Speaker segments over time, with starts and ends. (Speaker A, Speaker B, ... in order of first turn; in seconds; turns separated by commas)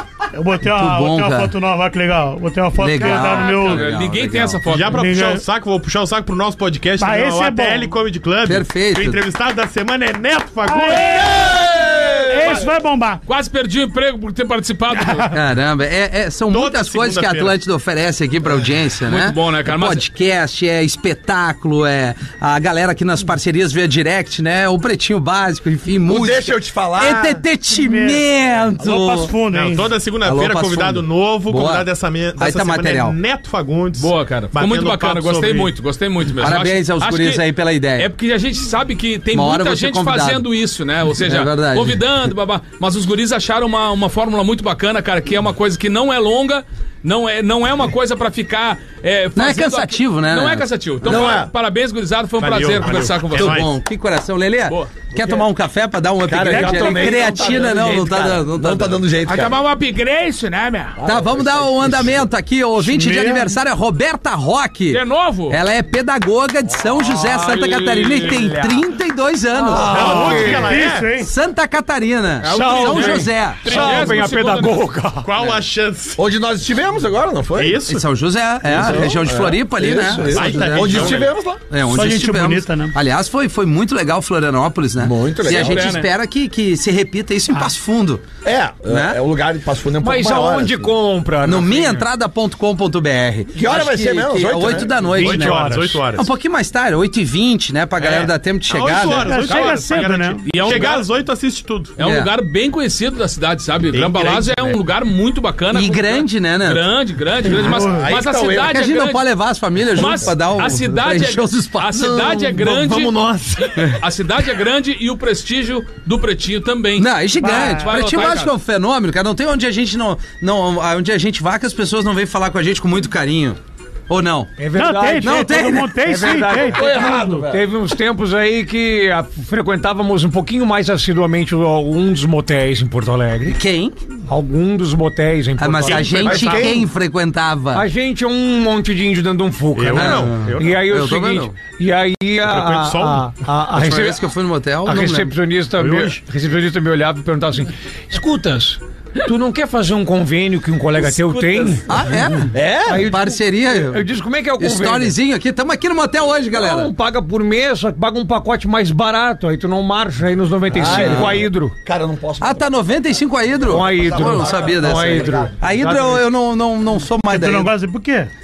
Speaker A: 0.3-3.9, Speaker B: 0.7-1.5, Speaker B: 2.8-4.6, Speaker C: 3.0-5.1, Speaker D: 4.7-11.5, Speaker A: 4.9-5.4, Speaker A: 7.0-7.9, Speaker B: 8.4-9.2, Speaker A: 10.6-13.2, Speaker E: 11.5-12.6, Speaker C: 13.3-15.3, Speaker B: 15.3-29.3, Speaker D: 16.5-17.6, Speaker C: 19.1-20.0, Speaker E: 26.1-27.4, Speaker A: 27.7-28.2, Speaker A: 28.8-29.9, Speaker D: 29.5-35.7, Speaker B: 30.2-33.1, Speaker C: 34.0-37.4, Speaker B: 36.4-38.1, Speaker C: 38.0-53.7, Speaker B: 39.3-40.4, Speaker B: 41.2-42.0, Speaker B: 49.4-51.2, Speaker E: 51.0-51.5, Speaker D: 52.4-53.7, Speaker B: 53.3-59.0, Speaker E: 55.1-55.4, Speaker E: 56.2-59.6, Speaker F: 56.5-57.5, Speaker C: 59.2-61.0, Speaker E: 61.0-62.3, Speaker B: 61.0-70.5, Speaker A: 62.8-63.5, Speaker C: 64.9-65.6, Speaker F: 67.0-68.9, Speaker F: 69.5-70.8, Speaker D: 69.8-71.2, Speaker A: 69.8-71.3, Speaker B: 71.1-73.7, Speaker F: 72.4-75.3, Speaker C: 72.5-74.9, Speaker D: 72.7-73.0, Speaker D: 73.7-74.2, Speaker D: 75.2-76.2, Speaker E: 76.2-77.9, Speaker D: 77.5-78.0, Speaker B: 77.9-88.2, Speaker E: 78.6-81.6, Speaker D: 80.2-81.3, Speaker A: 81.9-83.0, Speaker E: 85.0-86.0, Speaker C: 85.4-86.1, Speaker E: 88.4-90.9, Speaker B: 88.9-89.2, Speaker F: 90.0-92.1, Speaker B: 91.4-99.4, Speaker E: 93.5-95.1, Speaker D: 95.1-96.3, Speaker F: 95.2-95.9, Speaker D: 98.0-101.9, Speaker A: 99.2-100.8, Speaker C: 99.5-99.8, Speaker C: 100.5-101.1, Speaker C: 102.0-109.2, Speaker B: 102.0-102.3, Speaker D: 103.9-104.8, Speaker B: 105.7-106.8, Speaker A: 107.6-108.0, Speaker E: 107.7-108.8, Speaker B: 108.5-112.3, Speaker C: 109.9-113.2, Speaker F: 112.4-113.5, Speaker C: 113.8-118.5, Speaker B: 117.0-123.6, Speaker A: 117.4-117.9, Speaker B: 124.1-124.5, Speaker F: 124.6-133.6, Speaker A: 124.7-127.4, Speaker B: 125.2-126.2, Speaker E: 126.6-127.6, Speaker B: 133.5-134.0, Speaker F: 134.3-136.6, Speaker B: 135.6-137.8, Speaker D: 135.9-136.8, Speaker E: 136.1-136.9, Speaker F: 137.7-144.3, Speaker D: 139.7-140.8, Speaker B: 139.9-141.5, Speaker D: 142.4-143.5, Speaker B: 143.7-145.3, Speaker F: 144.8-155.1, Speaker D: 145.8-146.2, Speaker B: 151.9-154.1, Speaker E: 152.5-153.1, Speaker B: 154.6-156.9, Speaker F: 156.5-161.7, Speaker E: 160.7-162.7, Speaker B: 160.8-161.4, Speaker B: 162.4-167.7, Speaker E: 163.6-165.9, Speaker F: 163.7-166.2, Speaker A: 167.3-168.3